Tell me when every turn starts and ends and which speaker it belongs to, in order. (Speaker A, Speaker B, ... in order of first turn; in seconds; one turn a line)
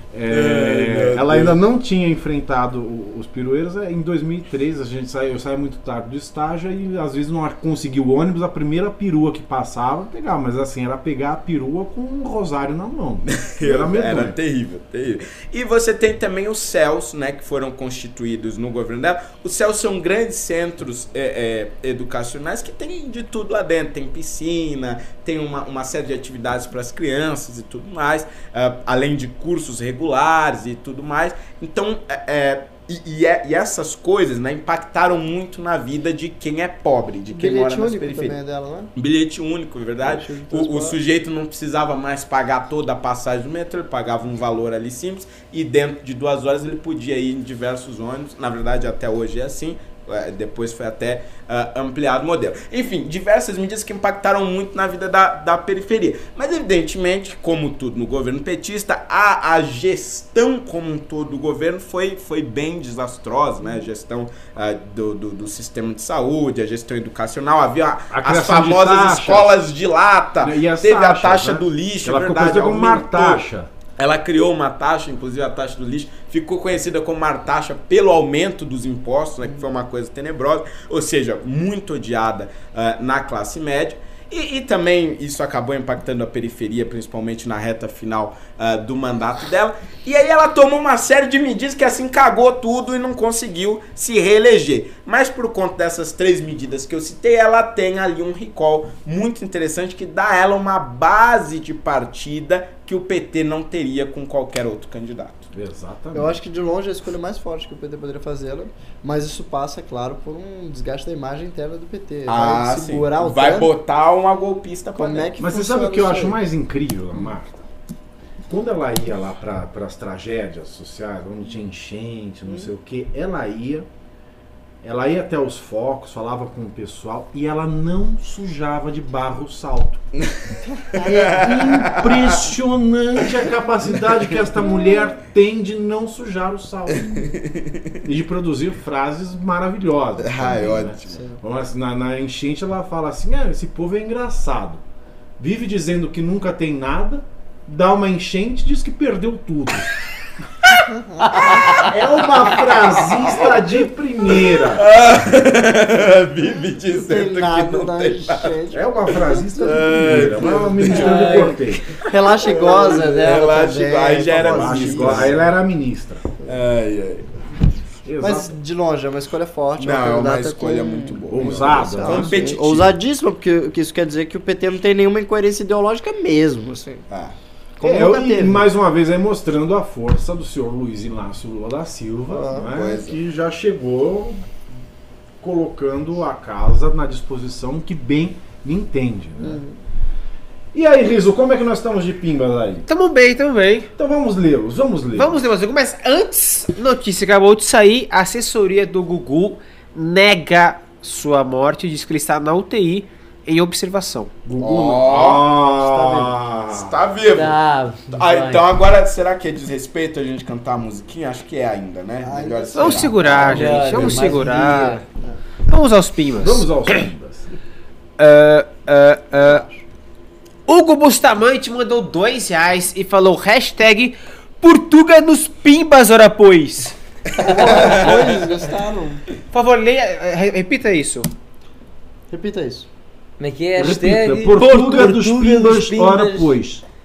Speaker A: 0.1-14.4
Speaker B: 0.3-1.6
Speaker B: 13.3-38.4
Speaker C: 37.3-38.9
Speaker B: 39.0-73.5
Speaker C: 40.0-41.0
Speaker A: 68.1-69.6
Speaker A: 70.4-73.7
Speaker B: 74.0-105.5
Speaker A: 105.5-106.3
Speaker C: 106.1-113.7
Speaker B: 112.3-115.3
Speaker C: 115.0-116.4
Speaker A: 115.4-117.7
Speaker A: 118.5-123.9
Speaker A: 124.8-130.0
Speaker A: 131.0-137.2
Speaker B: 131.1-132.3
Speaker B: 136.9-137.9
Speaker A: 138.0-144.8
Speaker B: 140.2-141.2
Speaker C: 141.1-141.4
Speaker A: 145.4-149.9
Speaker C: 150.8-151.6
Speaker D: 151.2-151.9
Speaker B: 151.5-151.8
Speaker A: 151.7-154.8
Speaker B: 152.3-153.6
Speaker B: 154.3-158.5
Speaker C: 156.8-160.7
Speaker A: 158.7-161.9
Speaker B: 159.6-165.4
Speaker D: 160.9-161.6
Speaker C: 161.3-165.4
Speaker A: 164.3-166.2
Speaker B: 166.4-167.3
Speaker A: 168.0-168.5
Speaker C: 168.2-177.0
Speaker B: 169.8-172.9
Speaker A: 171.3-172.4
Speaker B: 177.1-177.3
Speaker C: 177.8-178.7
Speaker A: 177.8-184.4
Speaker C: 182.3-182.7
Speaker B: 182.6-183.2
Speaker A: 185.4-189.6
Speaker C: 189.4-189.8
Speaker A: 190.7-192.8
Speaker E: 192.9-193.9
Speaker A: 194.0-195.4
Speaker E: 195.1-204.3
Speaker A: 204.4-206.9
Speaker B: 204.6-205.6
Speaker C: 205.8-206.2
Speaker B: 206.7-207.6
Speaker D: 207.3-208.6
Speaker B: 208.1-213.7
Speaker C: 212.2-215.4
Speaker E: 212.7-215.0
Speaker D: 213.4-214.8
Speaker E: 215.7-217.0
Speaker A: 216.4-217.5
Speaker E: 218.2-219.6
Speaker E: 220.7-226.9
Speaker C: 227.3-229.2
Speaker B: 227.7-228.2
Speaker E: 229.5-231.3
Speaker C: 232.3-232.9
Speaker D: 233.4-236.6
Speaker A: 233.8-236.8